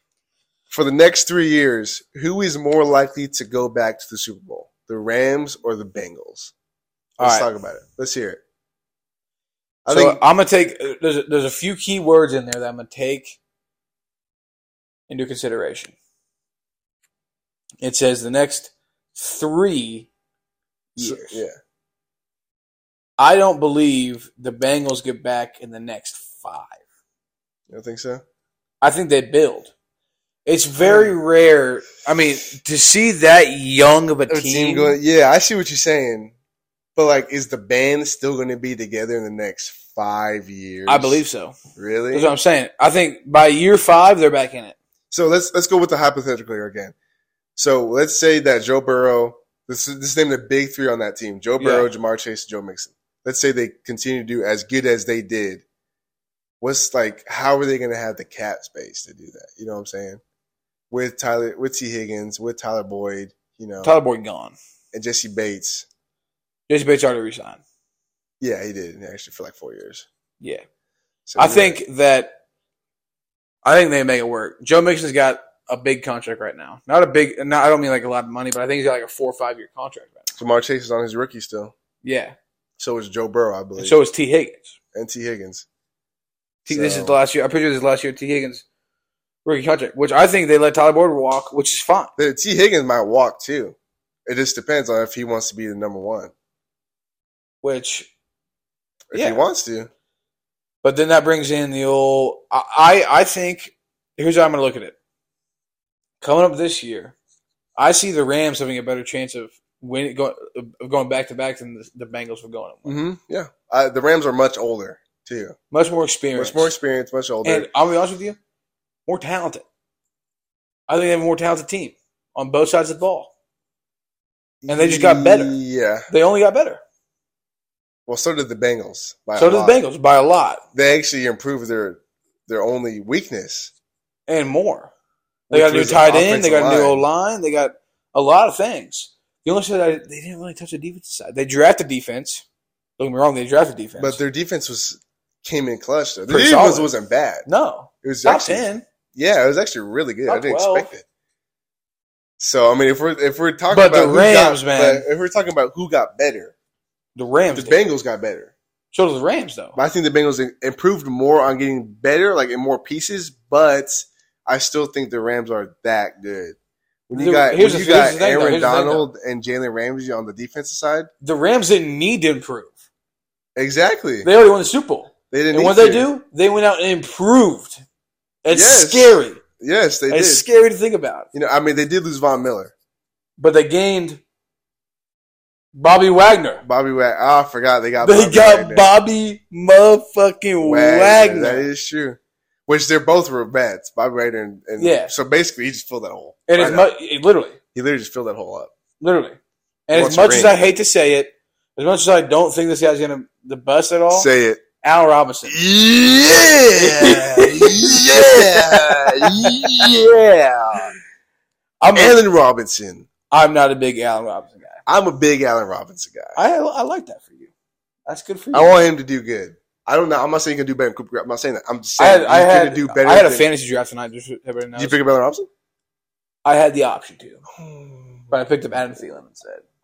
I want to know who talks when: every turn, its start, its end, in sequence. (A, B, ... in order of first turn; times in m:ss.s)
0:00.7-0:06.5 A
0:07.2-0:08.4 A
0:07.2-0:07.5 B
0:09.8-0:10.2 A
0:09.9-0:13.4 B
0:15.1-0:16.0 B
0:17.8-0:20.1 B
0:21.0-0:21.4 B
0:21.0-0:21.5 A
0:23.2-0:26.8 B
0:27.7-0:28.2 A
0:28.8-0:29.7 B
0:30.4-0:35.0 B
0:30.8-0:31.2 A
0:34.3-0:36.3 A
0:37.0-0:41.2 A
0:40.9-0:41.6 B
0:41.8-0:42.3 A
0:42.1-0:44.8 B
0:45.1-0:46.9 A
0:47.6-0:55.6 A
0:51.6-0:51.9 B
0:56.6-1:00.2 A
1:00.9-1:03.9 A
1:03.8-1:04.5 B
1:04.9-1:05.9 A
1:06.7-1:07.6 B
1:08.4-1:10.0 A
1:11.2-1:11.8 A
1:11.4-1:12.3 B
1:13.6-1:20.3 B
1:20.4-1:21.7 A
1:22.0-1:22.3 B
1:22.8-1:24.0 A
1:23.8-1:24.7 B
1:24.9-1:25.6 A
1:26.6-1:27.2 A
1:26.6-1:28.6 B
1:29.4-1:32.1 B
1:32.2-1:36.3 A
1:37.6-1:38.1 B
1:39.1-1:39.9 A
1:39.1-1:39.4 B
1:40.8-1:45.0 B
1:46.2-1:47.2 B
1:47.8-1:53.0 B
1:52.8-1:55.6 A
1:55.7-1:56.7 B
1:56.3-1:57.7 A
1:57.4-1:58.4 B
1:59.1-1:59.6 B
2:00.9-2:03.3 B
2:04.6-2:06.1 A
2:04.7-2:05.5 B
2:06.1-2:06.8 B
2:08.1-2:09.8 A
2:09.4-2:10.6 B
2:10.7-2:13.7 A
2:14.3-2:14.9 B
2:15.5-2:17.0 A
2:15.5-2:22.4 B
2:23.0-2:24.2 B
2:24.0-2:27.5 A
2:26.3-2:26.9 B
2:27.4-2:28.8 B
2:28.0-2:31.0 A
2:30.3-2:30.9 B
2:32.4-2:36.5 A
2:33.7-2:35.1 B
2:37.2-2:37.8 B
2:37.5-2:38.5 A
2:38.9-2:39.8 B
2:39.8-2:46.6 A
2:47.1-2:51.1 A
2:47.1-2:49.1 B
2:51.2-2:52.7 B
2:53.6-2:54.3 A
2:54.2-2:57.8 B
2:55.3-2:56.1 A
2:58.4-2:59.4 B
2:58.5-3:00.4 A
3:00.1-3:01.3 B
3:01.3-3:02.7 A
3:03.4-3:04.2 B
3:05.7-3:06.6 B
3:06.6-3:08.9 A
3:08.0-3:11.6 B
3:10.6-3:16.9 A
3:14.8-3:15.1 B
3:16.5-3:17.6 B
3:17.7-3:18.7 A
3:19.0-3:24.3 B
3:19.9-3:20.5 A
3:24.1-3:24.6 A
3:24.8-3:25.6 B
3:25.4-3:30.9 A
3:26.2-3:30.0 B
3:31.8-3:32.2 B
3:31.9-3:33.1 A
3:33.3-3:34.8 B
3:34.9-3:36.4 A
3:36.4-3:37.5 B
3:38.0-3:38.8 B
3:38.5-3:43.5 A
3:42.0-3:45.0 B
3:44.8-3:45.5 A
3:46.4-3:47.4 B
3:47.6-3:48.3 A
3:48.3-3:49.6 B